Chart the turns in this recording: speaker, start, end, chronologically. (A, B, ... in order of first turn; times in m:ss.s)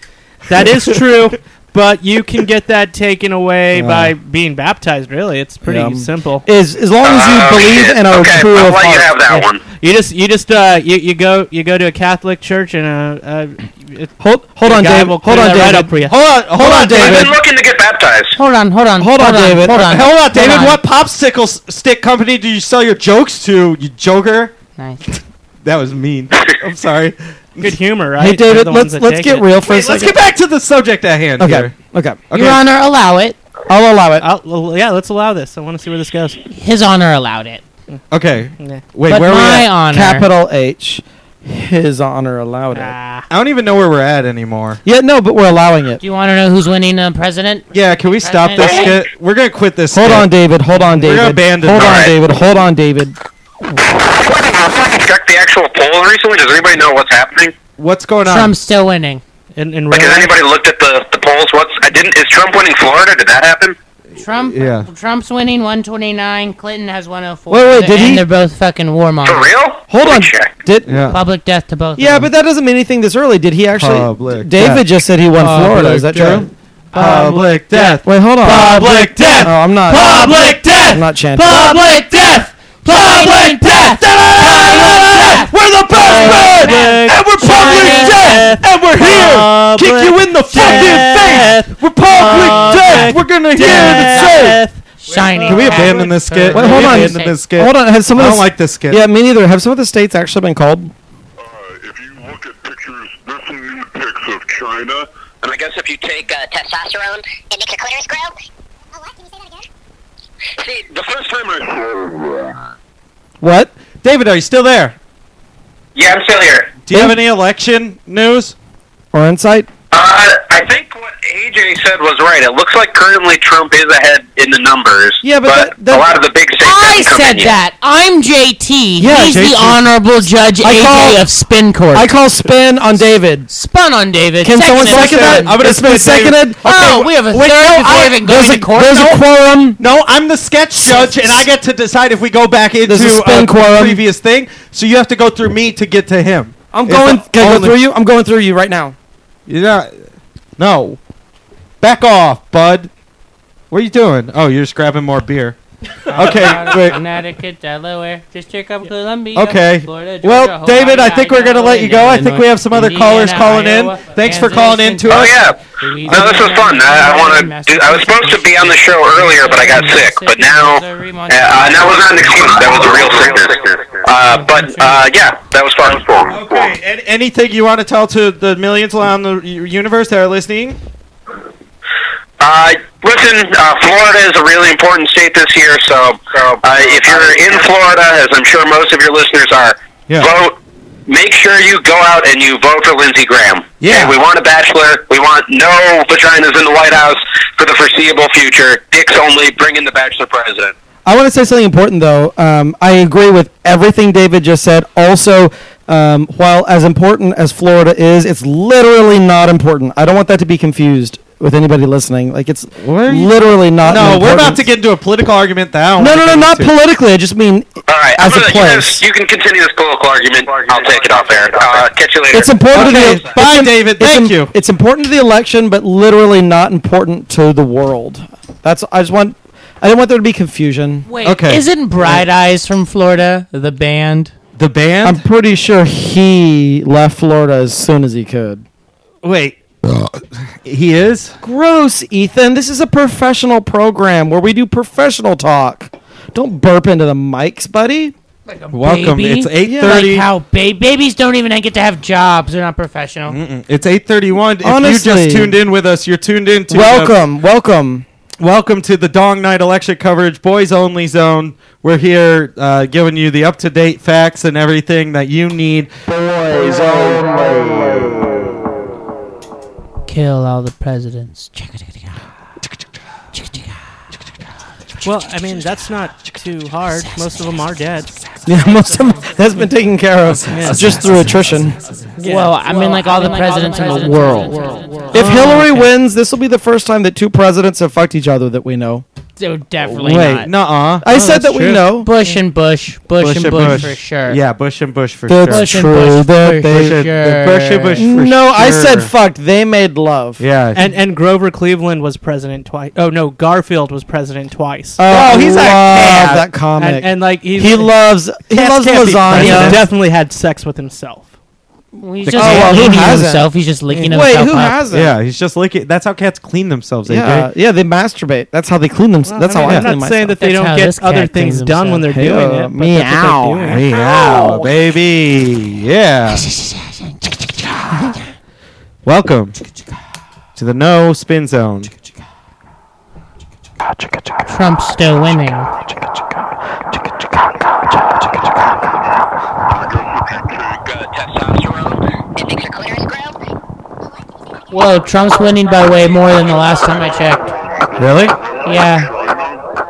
0:00.5-0:06.5 A
0:03.8-0:04.1 B
0:05.6-0:09.4 C
0:07.0-0:09.6 D
0:09.8-0:16.2 A
0:14.2-0:16.0 C
0:16.0-0:17.4 B
0:16.5-0:17.4 C
0:16.6-0:18.4 D
0:18.4-0:20.8 E
0:19.0-0:19.9 C
0:19.7-0:24.5 B
0:24.8-0:25.0 E
0:25.6-0:27.8 B
0:27.6-0:29.5 A
0:28.2-0:30.2 C
0:29.6-0:31.7 B
0:31.4-0:32.2 C
0:32.3-0:32.6 B
0:32.3-0:33.4 E
0:33.7-0:34.3 C
0:34.2-0:36.4 A
0:36.5-0:37.6 E
0:38.1-0:39.7 B
0:38.6-0:38.8 A
0:39.1-0:40.3 E
0:39.9-0:43.0 C
0:42.7-0:43.3 A
0:43.3-0:44.8 B
0:44.8-0:46.0 C
0:46.0-0:49.0 E
0:47.7-0:50.3 B
0:48.6-0:48.9 D
0:49.9-0:53.2 C
0:50.9-0:52.1 B
0:51.8-0:52.1 D
0:54.0-0:57.5 D
0:57.8-0:58.5 B
0:58.3-0:59.2 E
0:59.6-1:00.3 A
0:59.9-1:03.8 D
1:04.2-1:09.5 E
1:04.4-1:04.9 B
1:07.5-1:08.2 C
1:09.2-1:10.5 D
1:09.9-1:11.1 C
1:10.9-1:11.2 B
1:11.1-1:12.3 E
1:12.0-1:16.5 C
1:13.8-1:14.8 B
1:15.4-1:34.6 B
1:17.0-1:17.9 E
1:17.1-1:18.0 A
1:18.0-1:20.1 C
1:19.1-1:22.5 A
1:20.9-1:21.7 C
1:21.5-1:28.5 E
1:25.9-1:36.0 A
1:32.2-1:37.4 E
1:35.4-1:39.0 B
1:36.5-1:40.9 C
1:41.4-1:45.1 F
1:45.4-1:46.3 D
1:46.2-1:48.3 G
1:49.0-1:49.6 G
1:50.6-1:50.9 G
1:50.9-1:51.6 D
1:51.6-1:52.6 F
1:53.4-1:53.7 C
1:54.0-1:55.0 B
1:56.0-1:56.7 D
1:56.8-1:58.6 B
1:56.9-1:57.2 C
1:59.1-1:59.7 C
1:59.9-2:07.5 D
2:05.2-2:06.1 C
2:06.6-2:12.1 E
2:09.0-2:09.5 C
2:09.1-2:09.8 B
2:10.6-2:11.2 C
2:11.9-2:13.5 C
2:13.5-2:15.5 E
2:14.4-2:17.0 C
2:14.7-2:18.2 B
2:16.6-2:19.2 E
2:18.0-2:19.8 C
2:18.8-2:19.2 B
2:19.8-2:27.8 B
2:20.8-2:21.4 E
2:22.8-2:24.0 C
2:26.7-2:29.0 C
2:29.5-2:29.9 B
2:30.6-2:31.0 B
2:31.8-2:32.9 B
2:33.7-2:35.6 B
2:36.1-2:37.0 B
2:36.1-2:52.3 E
2:39.3-2:45.5 B
2:45.1-2:56.4 D
2:54.2-2:55.1 E
2:56.3-3:00.8 B
3:02.4-3:20.7 D
3:13.8-3:14.2 B
3:21.0-3:34.7 C
3:32.8-3:36.7 B
3:36.0-3:39.0 C
3:37.9-3:43.1 D
3:42.3-3:51.1 C
3:42.7-3:44.5 B
3:51.1-3:54.3 E
3:51.2-3:52.2 B
3:54.6-3:55.2 B
3:55.0-3:58.6 C
3:59.2-4:01.4 B
4:01.4-4:08.1 C
4:08.5-4:13.4 E
4:08.7-4:10.3 B
4:09.6-4:10.1 C
4:13.3-4:17.2 B
4:14.6-4:15.6 C
4:16.7-4:18.1 C
4:18.4-4:25.9 B
4:26.6-4:27.3 C
4:30.1-4:32.2 E
4:33.3-4:33.7 E
4:35.0-4:38.2 A
4:38.5-4:41.8 C
4:40.5-4:41.0 A
4:42.2-4:45.6 A
4:42.2-4:45.9 E
4:45.1-4:49.0 C
4:49.4-4:50.5 E
4:49.8-4:51.1 B
4:51.0-4:52.1 C
4:51.1-4:51.8 A
4:52.0-4:54.4 E
4:53.2-4:55.7 B
4:55.3-4:57.0 C
4:55.5-4:58.0 E
4:56.6-4:59.1 B
4:58.0-5:00.4 C
5:00.4-5:00.9 B
5:00.8-5:05.0 A
5:05.0-5:09.9 C
5:05.1-5:06.4 B
5:06.0-5:07.9 A
5:08.5-5:11.3 A
5:09.3-5:09.8 B
5:12.0-5:14.8 E
5:12.3-5:12.8 B
5:12.4-5:15.2 C
5:14.9-5:17.5 B
5:17.1-5:20.4 C
5:19.2-5:23.8 A
5:19.6-5:19.9 B
5:20.4-5:22.1 E
5:22.1-5:23.9 C
5:23.7-5:26.4 B
5:26.3-5:28.1 E
5:29.0-5:29.6 B
5:30.6-5:31.9 B
5:34.5-5:35.7 E
5:39.7-5:40.9 F
5:40.8-5:42.0 D
5:42.4-5:43.4 G
5:44.7-5:47.5 E
5:48.0-5:48.4 B
5:48.4-5:49.6 F
5:48.6-5:49.1 E